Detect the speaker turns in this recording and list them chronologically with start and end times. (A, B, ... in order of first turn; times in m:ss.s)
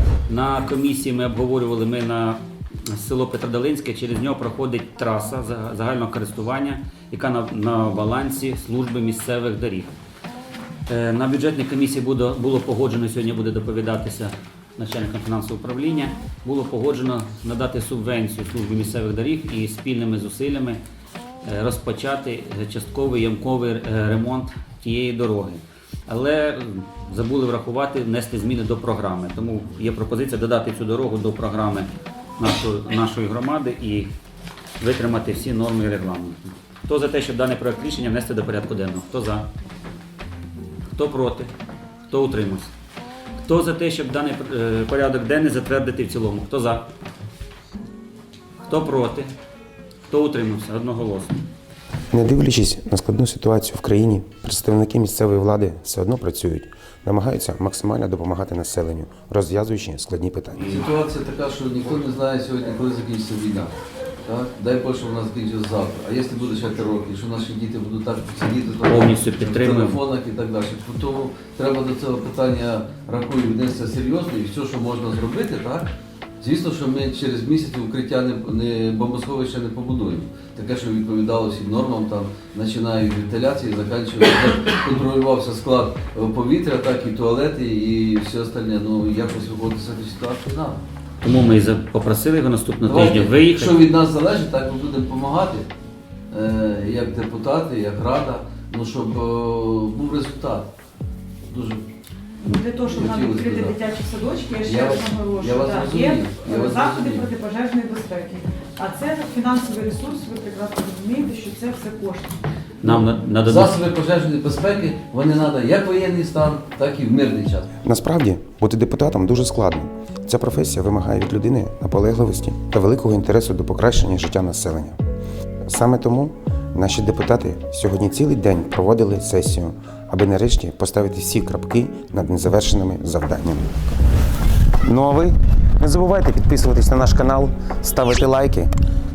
0:00.2-0:09.9 A
0:10.9-0:20.8 A
0:21.4-0:34.1 A
0:34.8-0:39.4 A
0:40.9-0:41.5 A
0:42.1-0:42.7 A
0:43.4-0:46.8 A
0:48.6-0:49.3 A
0:50.1-0:51.4 A
0:52.1-1:00.8 B
1:00.6-1:03.7 C
1:04.2-1:15.9 C
1:08.8-1:10.0 A
1:16.4-1:30.8 C
1:31.2-1:33.8 A
1:32.8-1:35.7 C
1:36.3-1:40.7 C
1:41.5-1:41.8 C
1:42.4-1:52.4 D
1:42.5-1:43.8 C
1:44.6-1:47.3 C
1:52.8-1:53.8 A
1:52.8-1:57.7 C
1:57.8-2:05.0 B
2:05.7-2:13.8 B
2:14.8-2:18.7 B